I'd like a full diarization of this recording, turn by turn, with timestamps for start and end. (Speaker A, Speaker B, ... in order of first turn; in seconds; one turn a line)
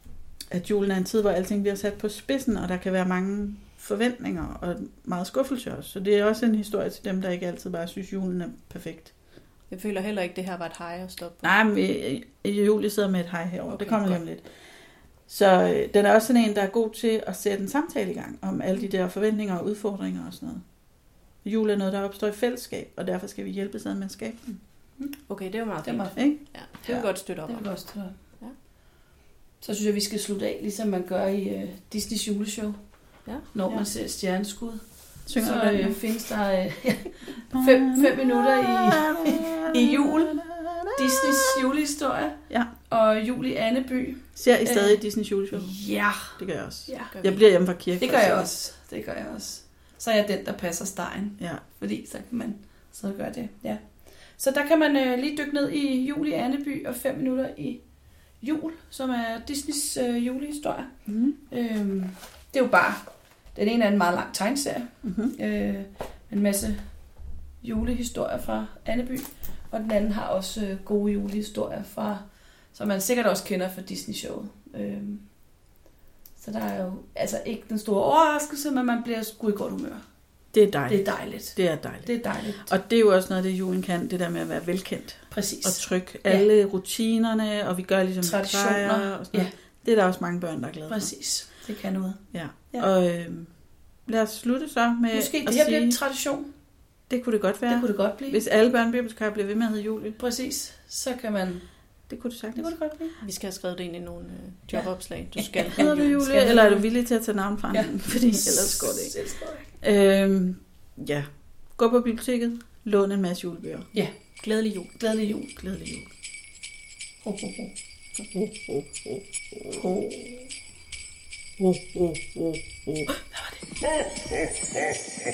Speaker A: 0.5-9.1
Speaker B: 9.7-11.5
Speaker A: 11.4-14.4
Speaker B: 13.7-14.2
Speaker A: 15.3-20.6
Speaker A: 21.4-24.6
Speaker B: 25.3-27.7
Speaker C: 25.8-26.2
Speaker C: 26.8-28.1
Speaker C: 29.6-32.8
Speaker C: 33.5-40.4
Speaker A: 35.3-36.0
Speaker A: 37.5-41.6
Speaker C: 40.9-47.1
Speaker A: 44.4-45.7
Speaker A: 46.4-48.5
Speaker B: 47.1-47.4
Speaker C: 48.0-53.8
Speaker C: 54.4-57.8
Speaker C: 58.4-60.9
Speaker A: 61.1-61.4
Speaker C: 61.5-63.0
Speaker C: 63.5-66.8
Speaker A: 65.0-65.3
Speaker C: 67.6-72.2
Speaker C: 72.7-75.2
Speaker C: 76.4-80.0
Speaker A: 80.5-82.1
Speaker C: 80.9-82.7
Speaker A: 82.6-91.1
Speaker C: 85.3-86.5
Speaker C: 88.2-89.5
Speaker C: 90.9-92.2
Speaker A: 92.3-93.5
Speaker A: 94.0-96.0
Speaker C: 95.1-96.5
Speaker A: 97.1-100.2
Speaker C: 97.7-98.4
Speaker C: 100.2-101.7
Speaker A: 102.1-102.7
Speaker C: 102.5-103.2
Speaker B: 103.2-106.2
Speaker C: 104.7-106.9
Speaker A: 105.7-109.2
Speaker C: 107.7-109.7
Speaker A: 109.8-113.9
Speaker B: 114.4-115.0
Speaker C: 115.0-115.5
Speaker A: 115.5-116.1
Speaker C: 117.2-117.7
Speaker A: 118.3-118.8
Speaker C: 119.7-120.5
Speaker A: 121.6-123.1
Speaker C: 123.3-123.6